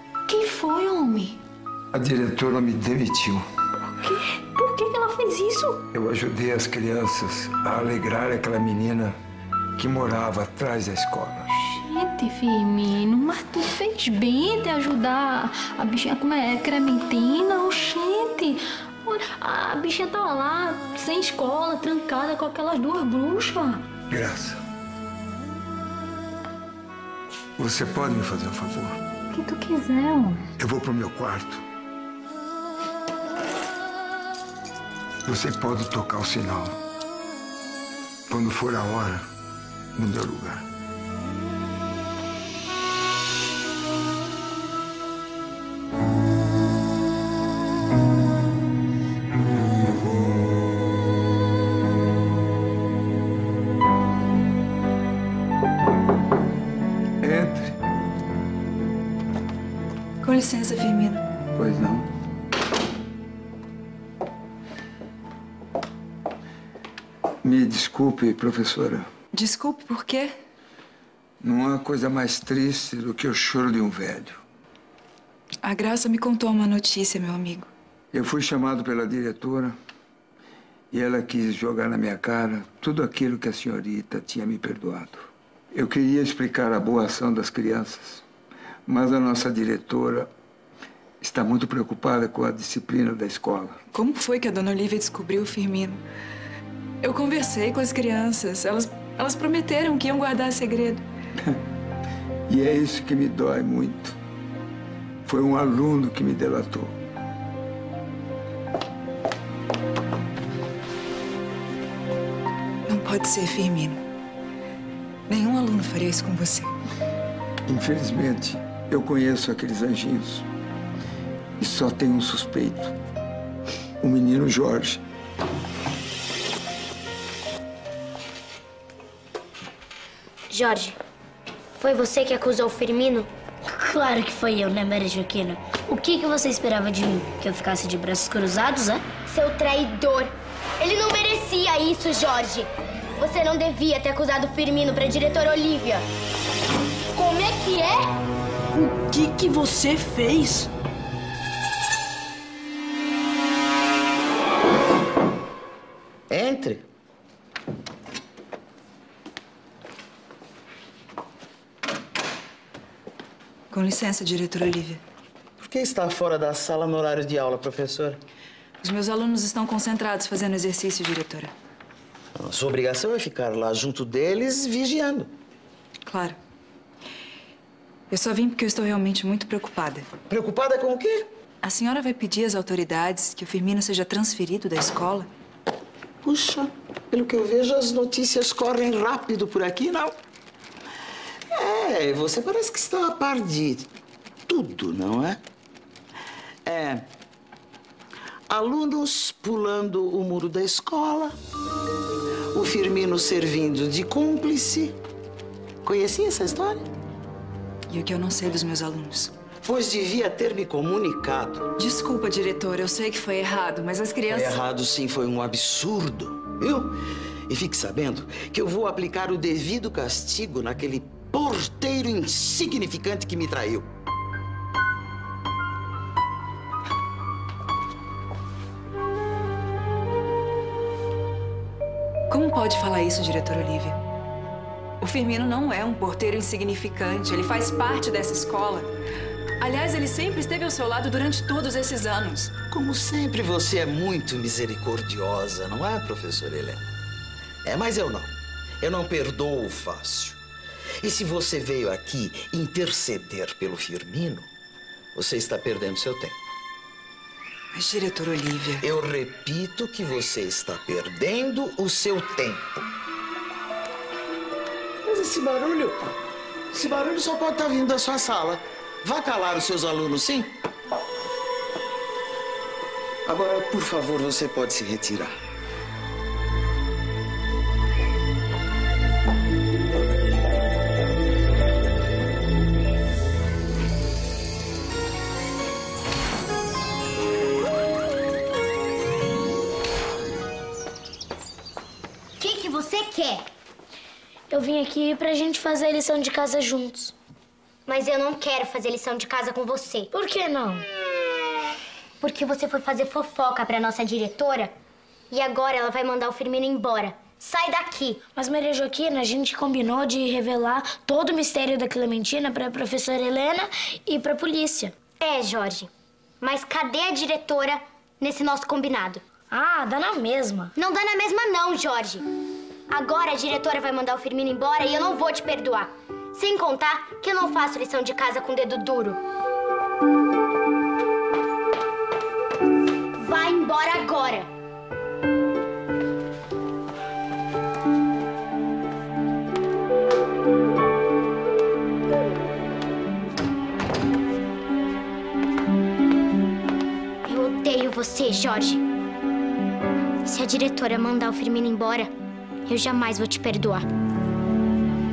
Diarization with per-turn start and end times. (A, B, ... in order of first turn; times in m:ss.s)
0:00.3-0:01.4 A
0:01.9-0:03.4 B
0:04.0-0:05.8 A
0:05.9-0:09.2 B
0:09.8-0:11.5 B
0:11.5-0:23.8 A
0:24.1-0:24.6 B
0:27.6-0:29.0 B
0:29.4-0:30.0 A
0:30.6-0:31.6 B
0:35.2-0:36.8 B
0:38.3-0:39.3 B
0:39.9-0:40.6 B
0:57.2-0:57.7 B
1:00.2-1:01.2 C
1:01.5-1:02.1 B
1:07.4-1:09.1 B
1:09.3-1:10.3 C
1:11.4-1:14.4 B
1:15.6-1:17.7 C
1:18.1-1:19.8 B
1:20.9-1:28.2 B
1:28.8-1:30.3 B
1:31.2-1:33.8 B
1:33.9-1:36.0 C
1:37.0-1:41.0 C
1:42.5-1:44.2 B
1:45.2-1:47.0 B
1:52.9-1:54.0 C
1:55.3-1:56.7 C
1:57.6-2:00.4 B
2:01.6-2:02.9 B
2:04.0-2:05.0 B
2:10.5-2:10.9 D
2:11.8-2:13.3 D
2:13.7-2:19.1 E
2:19.2-2:26.0 D
2:27.2-2:27.9 A
2:28.7-2:30.7 F
2:36.3-2:36.8 G
2:43.7-2:45.0 C
2:45.6-2:48.2 G
2:48.8-2:51.5 C
2:52.4-2:55.3 G
2:56.0-2:56.4 C
2:58.1-3:00.1 C
3:00.3-3:01.3 G
3:01.6-3:05.3 C
3:06.2-3:10.1 G
3:11.5-3:13.9 G
3:14.5-3:15.4 G
3:16.6-3:17.0 G
3:18.5-3:21.4 G
3:22.5-3:25.0 G
3:25.8-3:26.8 G
3:27.9-3:29.3 C
3:29.6-3:31.7 G
3:31.8-3:34.6 C
3:34.3-3:37.0 G
3:37.5-3:43.9 G
3:52.3-3:54.0 C
3:55.0-3:58.9 C
3:59.6-4:02.5 C
4:02.7-4:06.8 G
4:07.6-4:10.4 G
4:11.0-4:14.5 G
4:15.1-4:16.4 G
4:17.7-4:18.8 C
4:18.8-4:22.8 G
4:25.0-4:26.0 G
4:26.7-4:30.5 G
4:33.2-4:35.3 G
4:52.4-4:53.4 D
4:54.5-4:57.1 E
4:57.9-5:00.1 D
5:00.1-5:00.8 E
5:02.2-5:04.7 D
5:05.3-5:08.3 D
5:08.4-5:15.0 E
5:15.1-5:15.9 D
5:16.4-5:19.2 D
5:19.5-5:20.7 E
5:20.8-5:22.2 D
5:22.9-5:29.2 D
5:33.2-5:34.5 D
5:47.2-5:48.8 D
5:50.2-5:52.1 D
5:52.7-5:53.8 D